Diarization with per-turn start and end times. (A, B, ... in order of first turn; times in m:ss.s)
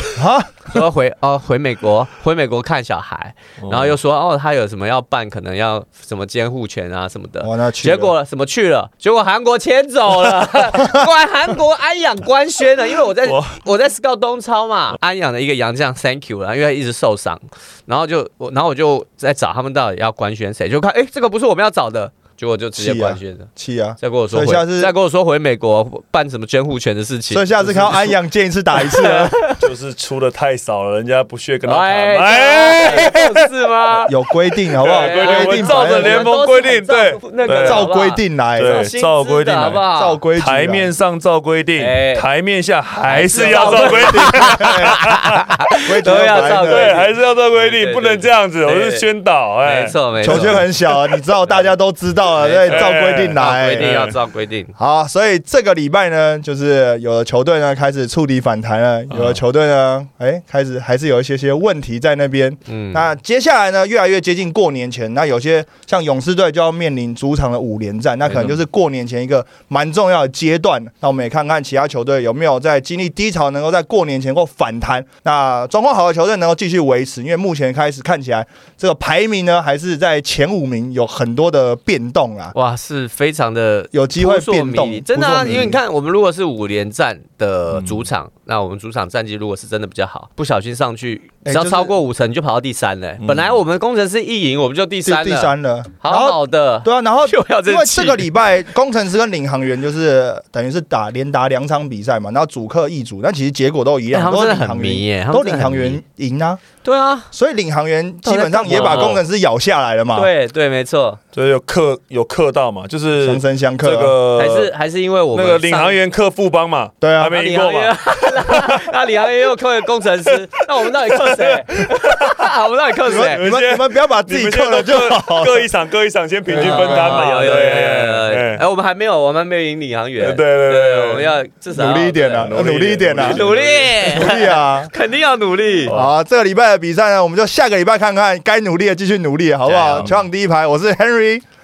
0:00.2-0:00.5 A
0:00.6-0:23.5 B
0:03.6-0:04.0 C
0:07.4-0:08.1 A
0:13.2-0:13.6 C
0:22.8-0:24.9 A
0:24.0-0:27.9 B
0:27.3-0:29.4 A
0:27.6-0:28.1 C
0:28.8-0:29.6 B
0:29.6-0:33.4 C
0:31.6-0:34.2 B
0:34.1-0:36.3 A
0:34.8-0:37.9 C
0:34.9-0:40.2 B
0:37.6-0:38.8 A
0:38.6-0:39.8 C
0:40.0-0:40.9 A
0:40.4-0:45.4 C
0:41.8-0:42.2 B
0:43.0-0:49.1 B
0:43.4-0:45.0 A
0:45.8-0:47.0 A
0:46.4-0:50.7 C
0:49.6-0:50.7 B
0:50.2-0:54.1 A
0:52.4-0:54.7 B
0:52.7-0:54.2 C
0:54.8-1:22.5 A
0:59.1-0:59.4 C
1:02.7-1:03.1 B
1:08.3-1:08.6 C
1:22.5-1:38.3 B
1:23.9-1:25.8 A
1:27.8-1:28.0 C
1:31.4-1:31.9 A
1:33.2-1:33.6 C
1:35.0-1:46.6 A
1:44.1-1:46.0 B
1:46.8-1:47.3 B
1:47.3-1:50.3 A
1:48.2-1:49.2 B
1:48.7-1:49.2 C
1:50.2-1:51.2 B
1:51.3-1:54.7 C
1:53.2-1:54.2 A
1:54.4-1:56.0 B
1:55.3-1:58.9 C
1:57.0-1:57.4 A
1:57.3-2:03.4 B
2:00.6-2:02.4 C
2:03.1-2:05.7 A
2:03.2-2:08.6 C
2:06.5-2:07.2 A
2:06.5-2:12.6 B
2:10.2-2:11.3 C
2:11.7-2:13.5 A
2:12.4-2:14.2 C
2:13.2-2:16.0 B
2:14.0-2:14.9 A
2:15.9-2:21.4 A
2:19.6-2:20.1 B